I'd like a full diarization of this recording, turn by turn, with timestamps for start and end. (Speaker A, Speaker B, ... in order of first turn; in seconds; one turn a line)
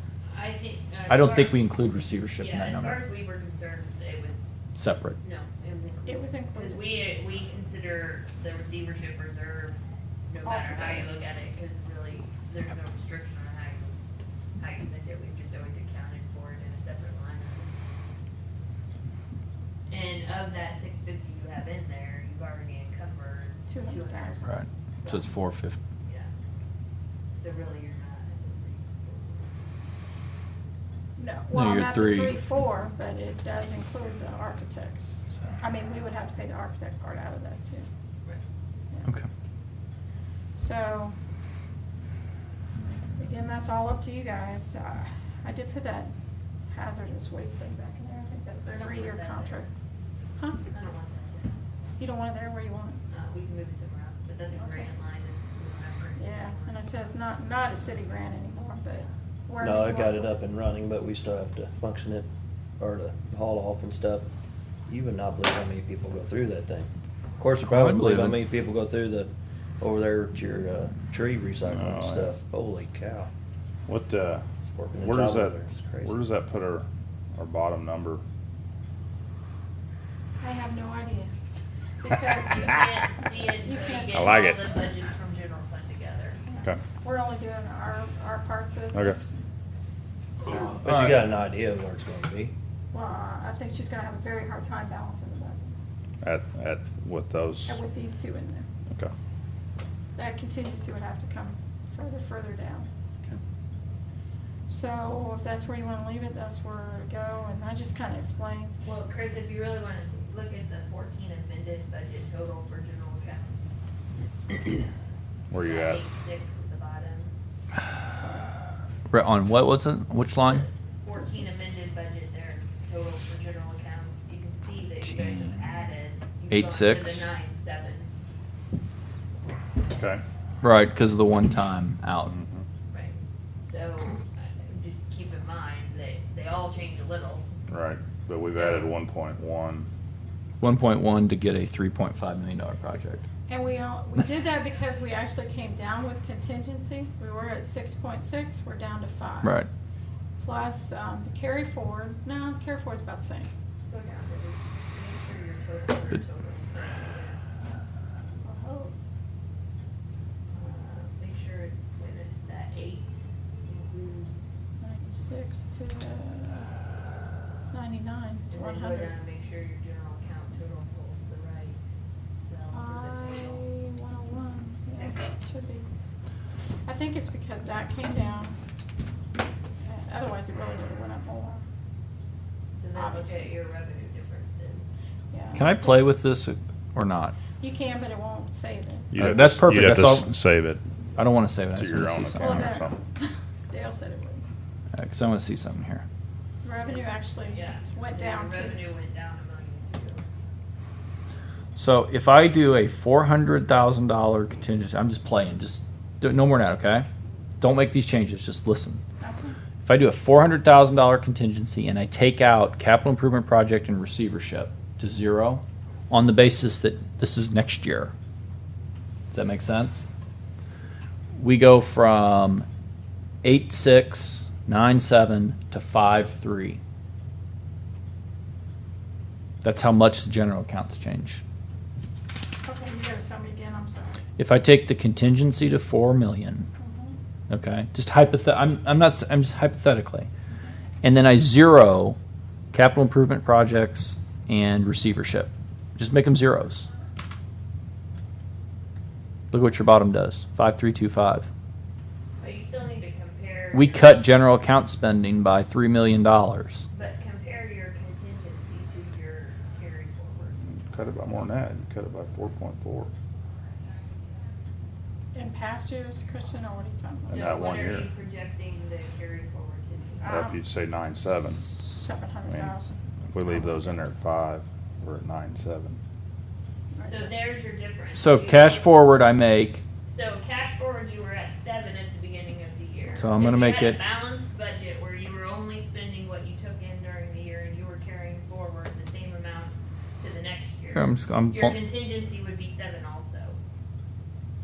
Speaker A: 0.3-1.6
Speaker B: 1.1-3.0
Speaker A: 2.4-4.4
Speaker B: 4.7-5.2
Speaker A: 5.2-14.0
Speaker C: 6.0-6.9
Speaker C: 10.4-11.1
Speaker A: 14.6-17.7
Speaker A: 19.9-25.3
Speaker C: 23.7-24.6
Speaker B: 24.4-25.8
Speaker A: 26.1-26.3
Speaker A: 27.4-29.7
Speaker C: 31.2-37.9
Speaker B: 31.5-32.4
Speaker C: 40.5-41.1
Speaker C: 43.1-46.1
Speaker C: 46.7-49.7
Speaker A: 48.6-49.7
Speaker A: 50.7-51.6
Speaker C: 52.0-53.0
Speaker A: 53.1-56.9
Speaker C: 54.5-54.9
Speaker C: 56.1-60.4
Speaker D: 59.6-62.3
Speaker D: 62.8-64.3
Speaker D: 64.9-73.3
Speaker B: 67.6-68.4
Speaker E: 71.7-72.3
Speaker E: 73.9-74.5
Speaker D: 74.7-76.3
Speaker E: 75.0-78.2
Speaker C: 80.4-81.3
Speaker C: 82.0-82.7
Speaker A: 82.4-86.4
Speaker C: 83.4-84.5
Speaker E: 84.1-84.6
Speaker C: 86.5-89.3
Speaker E: 88.9-89.2
Speaker C: 90.4-90.8
Speaker D: 90.8-92.5
Speaker B: 90.8-91.2
Speaker C: 92.9-95.8
Speaker E: 96.2-97.8
Speaker C: 97.7-98.7
Speaker C: 100.2-102.9
Speaker C: 104.7-108.8
Speaker A: 108.8-113.8
Speaker E: 115.5-116.0
Speaker A: 115.6-117.3
Speaker C: 118.1-118.6
Speaker B: 119.1-120.7
Speaker A: 120.5-128.1
Speaker B: 126.5-127.3
Speaker E: 129.9-130.2
Speaker B: 130.6-132.3
Speaker E: 132.2-132.7
Speaker A: 132.9-137.5
Speaker E: 137.7-139.9
Speaker A: 138.5-138.9
Speaker B: 140.6-143.2
Speaker C: 143.5-149.6
Speaker B: 149.4-149.7
Speaker C: 150.4-153.5
Speaker A: 153.9-157.4
Speaker C: 158.4-158.9
Speaker A: 160.5-164.4
Speaker C: 164.8-166.7
Speaker C: 167.7-169.1
Speaker A: 168.5-171.8
Speaker A: 172.3-173.7
Speaker C: 172.7-175.9
Speaker A: 175.0-175.2
Speaker C: 176.8-178.6
Speaker C: 179.8-181.6
Speaker A: 182.8-184.9
Speaker C: 182.9-183.5
Speaker C: 185.3-186.1
Speaker B: 185.6-187.3
Speaker C: 187.6-189.2
Speaker E: 189.1-190.8
Speaker B: 189.1-190.3
Speaker B: 191.2-192.7
Speaker E: 191.7-193.0
Speaker C: 192.4-194.4
Speaker B: 194.9-196.0
Speaker C: 196.6-198.8
Speaker A: 196.8-200.2
Speaker B: 201.8-207.1
Speaker B: 207.6-209.0
Speaker C: 209.2-209.6
Speaker B: 209.8-218.1
Speaker B: 219.3-220.1
Speaker B: 221.4-222.6
Speaker B: 223.4-226.8
Speaker B: 229.6-231.4
Speaker C: 232.6-234.2
Speaker B: 234.4-236.7
Speaker C: 236.8-237.2
Speaker B: 237.5-240.3
Speaker B: 241.0-242.2
Speaker B: 242.7-246.9
Speaker B: 249.5-251.5
Speaker A: 252.4-254.2
Speaker B: 253.7-256.9
Speaker A: 256.9-260.6
Speaker E: 260.7-263.1
Speaker C: 265.3-267.6
Speaker A: 267.3-270.3
Speaker E: 267.3-268.1
Speaker C: 270.2-270.6
Speaker E: 270.2-271.8
Speaker C: 271.6-274.0
Speaker E: 272.5-272.8
Speaker E: 273.3-276.0
Speaker C: 276.9-277.3
Speaker A: 277.1-278.9
Speaker B: 278.1-279.8
Speaker A: 280.1-293.6
Speaker B: 283.1-284.0
Speaker B: 290.9-291.8